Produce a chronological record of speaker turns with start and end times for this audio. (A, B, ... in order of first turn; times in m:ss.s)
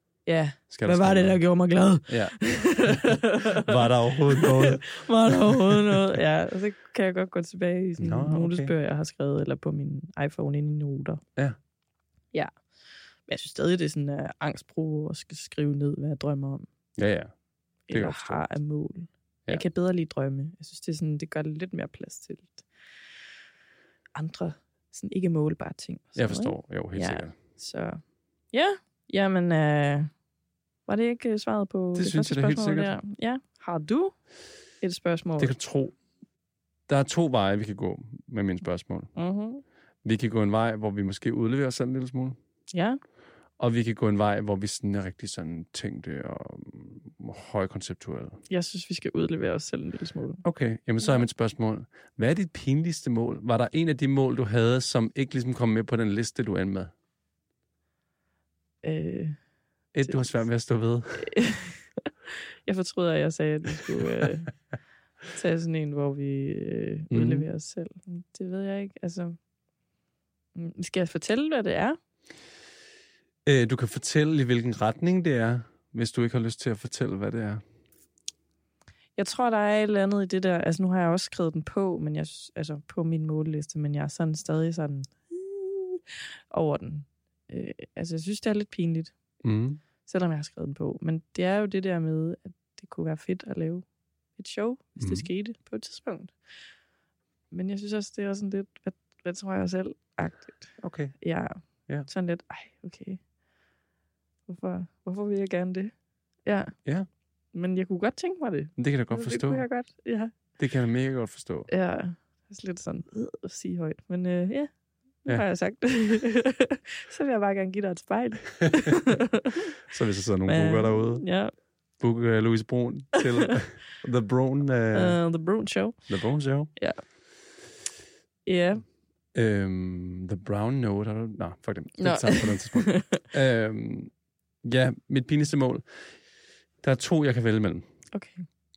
0:00.2-0:03.7 A
0:00.7-0:01.4 B
0:02.1-0:06.0 B
0:04.3-0:11.2 A
0:08.0-0:08.7 B
0:13.3-0:16.6 A
0:17.0-0:17.3 B
0:17.9-0:22.6 A
0:17.9-0:18.4 B
0:24.1-0:28.0 A
0:26.2-0:27.4 B
0:28.5-0:30.1 A
0:30.9-0:34.1 A
0:32.0-0:32.9 B
0:34.8-0:35.5 A
0:35.4-0:35.9 B
0:36.9-0:39.1 B
0:39.1-0:39.6 A
0:40.0-0:42.4 B
0:42.7-0:43.0 A
0:43.6-0:48.4 B
0:48.5-0:50.4 A
0:50.4-0:56.9 B
0:58.8-0:59.4 A
0:59.9-1:01.3 B
1:01.2-1:04.5 A
1:05.3-1:09.4 A
1:07.1-1:07.4 B
1:10.6-1:12.0 A
1:13.4-1:17.6 B
1:19.2-1:29.1 A
1:29.4-1:29.8 B
1:30.0-1:33.8 A
1:34.4-1:36.3 A
1:35.0-1:35.3 B
1:37.5-1:43.2 A
1:40.8-1:41.1 B
1:44.5-1:45.9 A
1:46.4-1:46.7 A
1:47.5-1:50.3 A
1:48.8-1:49.6 B
1:50.6-1:51.7 B
1:51.7-1:54.7 A
1:55.2-1:59.7 A
1:59.8-2:01.2 B
2:00.5-2:01.5 A
2:02.0-2:05.2 B
2:04.9-2:06.0 A
2:06.1-2:06.7 B
2:08.4-2:08.8 A
2:09.3-2:14.1 B
2:12.0-2:13.2 A
2:14.6-2:15.8 B
2:16.8-2:17.8 B
2:18.1-2:18.4 A